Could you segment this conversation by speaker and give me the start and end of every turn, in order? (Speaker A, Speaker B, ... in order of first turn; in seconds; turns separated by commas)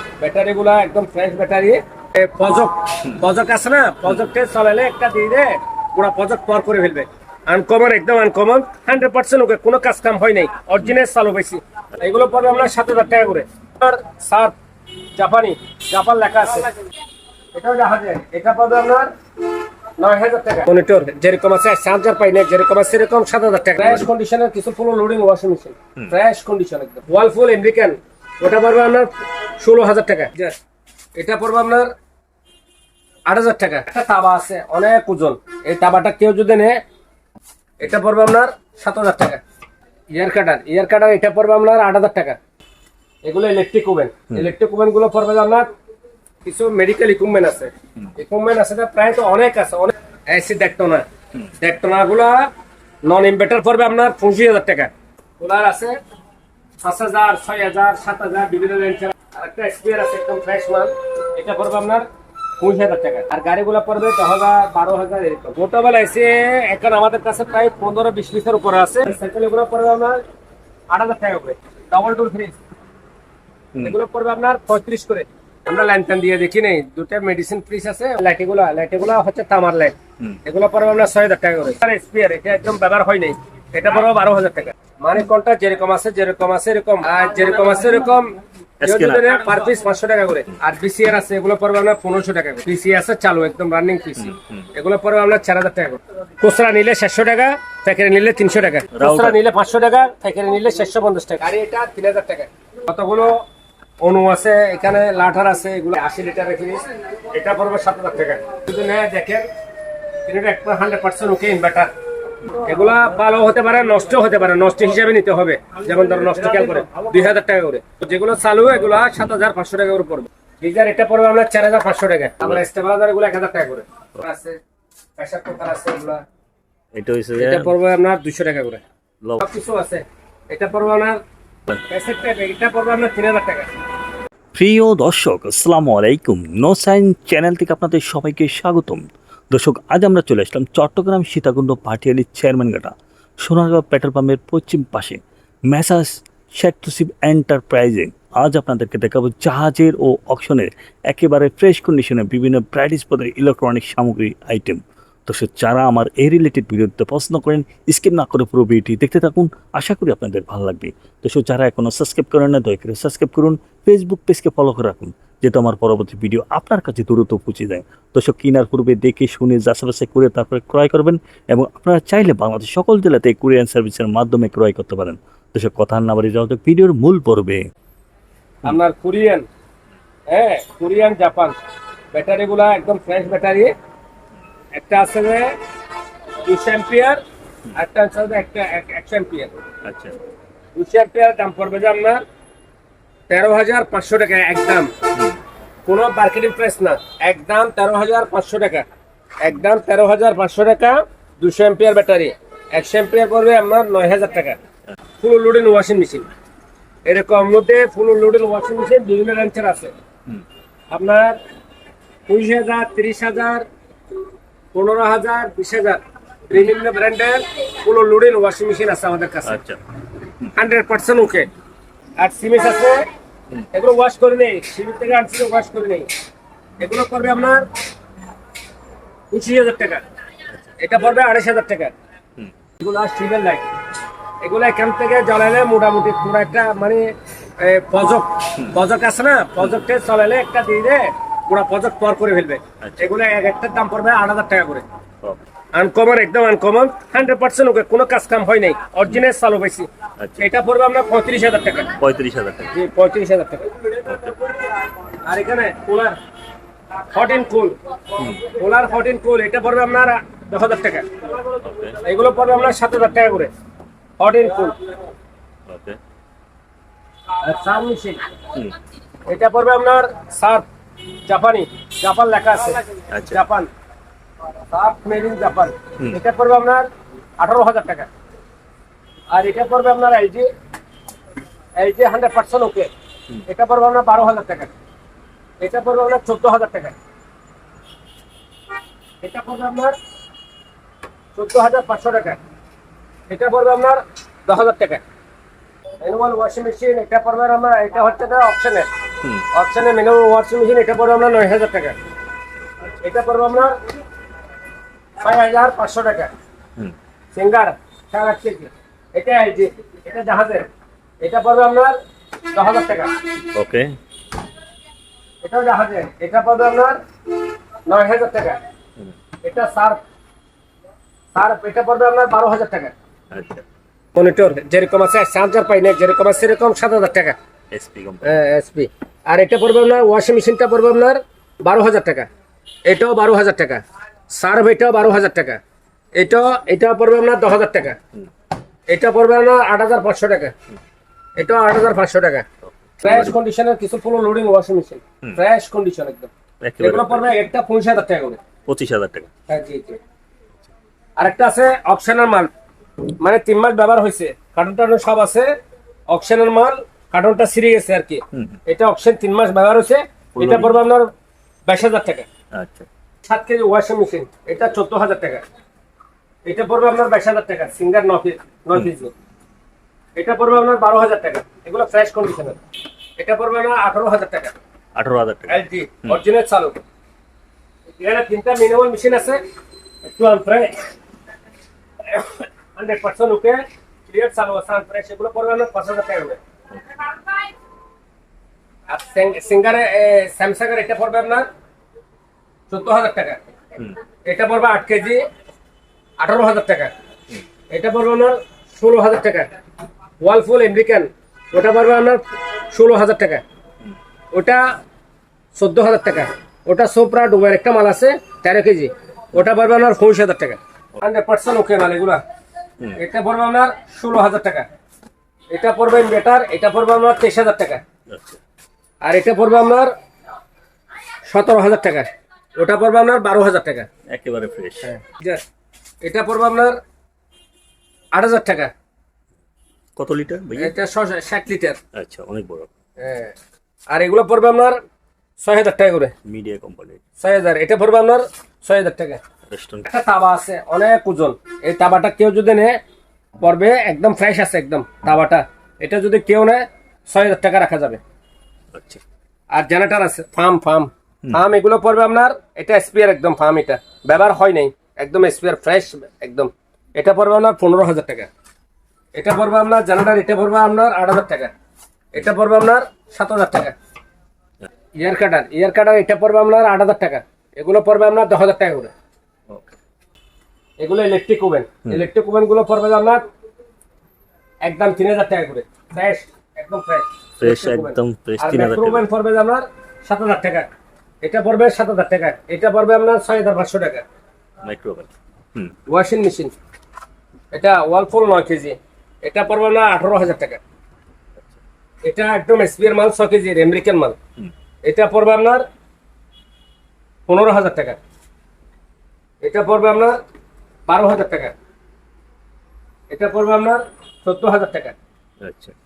Speaker A: 0.2-14.6, Speaker A: 15.1-16.7, Speaker A: 17.5-19.1, Speaker A: 20.0-30.6, Speaker B: 23.8-24.1, Speaker A: 31.1-31.9, Speaker A: 33.2-36.8, Speaker A: 37.8-39.4, Speaker A: 40.1-42.4, Speaker A: 43.2-45.7, Speaker A: 46.4-51.0, Speaker A: 51.6-52.5, Speaker A: 53.0-56.0, Speaker A: 56.8-62.0, Speaker A: 62.6-70.2, Speaker A: 70.9-72.6, Speaker A: 73.8-103.4, Speaker B: 88.8-89.5, Speaker B: 94.2-94.7, Speaker B: 98.9-99.4, Speaker A: 104.0-109.5, Speaker A: 110.2-111.9, Speaker A: 112.5-124.6, Speaker A: 125.2-126.2, Speaker B: 126.9-127.7, Speaker A: 127.4-128.8, Speaker A: 129.4-131.2, Speaker A: 131.9-133.7, Speaker B: 134.5-177.7, Speaker A: 178.6-179.5, Speaker A: 180.3-181.6, Speaker A: 182.1-183.7, Speaker A: 184.7-185.5, Speaker A: 186.4-187.2, Speaker A: 187.7-189.6, Speaker B: 189.8-190.2, Speaker A: 190.7-192.2, Speaker A: 193.3-194.9, Speaker B: 195.1-195.4, Speaker A: 195.8-198.9, Speaker A: 199.4-204.6, Speaker A: 205.2-206.3, Speaker A: 207.1-209.9, Speaker A: 210.9-211.4, Speaker A: 212.3-213.7, Speaker A: 214.7-219.6, Speaker B: 219.4-219.8, Speaker A: 220.5-221.5, Speaker A: 222.2-223.1, Speaker A: 223.7-226.1, Speaker A: 226.8-227.7, Speaker A: 229.3-230.0, Speaker A: 230.8-231.9, Speaker A: 232.8-233.7, Speaker A: 234.4-244.8, Speaker B: 242.8-243.1, Speaker A: 245.7-251.9, Speaker B: 250.2-250.5, Speaker B: 251.9-252.7, Speaker A: 252.7-254.1, Speaker B: 254.0-254.4, Speaker A: 255.2-256.1, Speaker A: 257.1-257.8, Speaker B: 258.2-258.5, Speaker A: 258.4-261.3, Speaker B: 261.6-262.0, Speaker A: 261.9-263.5, Speaker A: 264.2-264.8, Speaker B: 265.7-266.0, Speaker A: 267.4-268.2, Speaker A: 269.3-270.6, Speaker A: 271.2-273.7, Speaker B: 273.1-273.4, Speaker A: 274.7-276.9, Speaker A: 277.4-278.1, Speaker A: 279.3-280.5, Speaker A: 281.8-282.9, Speaker A: 283.5-284.7, Speaker A: 285.6-286.9, Speaker A: 289.2-289.9, Speaker A: 291.4-292.4, Speaker A: 293.3-295.0, Speaker A: 296.0-298.9, Speaker A: 299.5-302.0, Speaker A: 303.0-303.8, Speaker A: 305.2-306.3, Speaker A: 307.3-310.6, Speaker A: 311.2-311.9, Speaker A: 312.5-313.1, Speaker B: 313.5-313.9, Speaker A: 315.4-317.0, Speaker A: 317.9-318.6, Speaker A: 319.4-320.0, Speaker A: 321.3-322.9, Speaker B: 323.3-323.6, Speaker A: 324.1-327.4, Speaker B: 327.7-328.3, Speaker A: 328.2-332.3, Speaker A: 332.9-335.6, Speaker A: 336.1-338.0, Speaker A: 338.9-340.5, Speaker A: 341.4-342.4, Speaker B: 342.6-343.4, Speaker A: 343.0-348.4, Speaker B: 346.6-347.3, Speaker B: 348.6-349.3, Speaker A: 349.5-350.0, Speaker A: 351.2-352.5, Speaker A: 353.2-355.5, Speaker A: 356.1-361.1, Speaker B: 358.3-358.6, Speaker B: 360.3-360.8, Speaker A: 361.7-362.3, Speaker B: 362.5-362.9, Speaker A: 363.2-365.4, Speaker A: 366.4-369.1, Speaker A: 370.1-372.6, Speaker A: 373.2-374.6, Speaker B: 374.9-376.2, Speaker A: 375.5-376.8, Speaker A: 378.0-379.4, Speaker A: 380.1-380.8, Speaker A: 382.1-386.4, Speaker A: 388.9-391.4, Speaker A: 392.7-393.5, Speaker A: 394.2-395.2, Speaker A: 396.2-396.9, Speaker A: 397.7-399.5, Speaker A: 400.2-402.2, Speaker A: 402.7-403.4, Speaker A: 404.3-404.6, Speaker A: 405.5-412.2, Speaker A: 413.0-414.7, Speaker A: 415.5-417.8, Speaker B: 418.1-418.4, Speaker A: 419.0-419.9, Speaker A: 421.3-423.9, Speaker B: 424.1-424.9, Speaker A: 424.8-425.4, Speaker A: 426.0-426.8, Speaker A: 428.1-428.7, Speaker B: 429.9-430.7, Speaker A: 430.6-431.8, Speaker B: 431.9-432.7, Speaker A: 433.0-433.3, Speaker A: 433.9-434.8, Speaker A: 435.4-436.1, Speaker B: 436.2-437.0, Speaker A: 437.2-439.2, Speaker B: 439.5-439.9, Speaker A: 439.8-442.8, Speaker A: 443.4-448.0, Speaker B: 448.7-449.0, Speaker A: 449.5-458.3, Speaker A: 459.1-461.5, Speaker A: 462.1-463.7, Speaker A: 465.0-468.9, Speaker A: 470.8-473.2, Speaker A: 474.6-480.7, Speaker B: 477.4-479.1, Speaker A: 481.2-484.0, Speaker B: 484.6-485.7, Speaker A: 485.9-486.6, Speaker A: 487.5-490.6, Speaker A: 492.0-494.1, Speaker A: 494.8-495.6, Speaker A: 497.3-498.0, Speaker A: 499.4-500.2, Speaker A: 500.9-501.5, Speaker A: 503.1-504.9, Speaker B: 505.4-505.7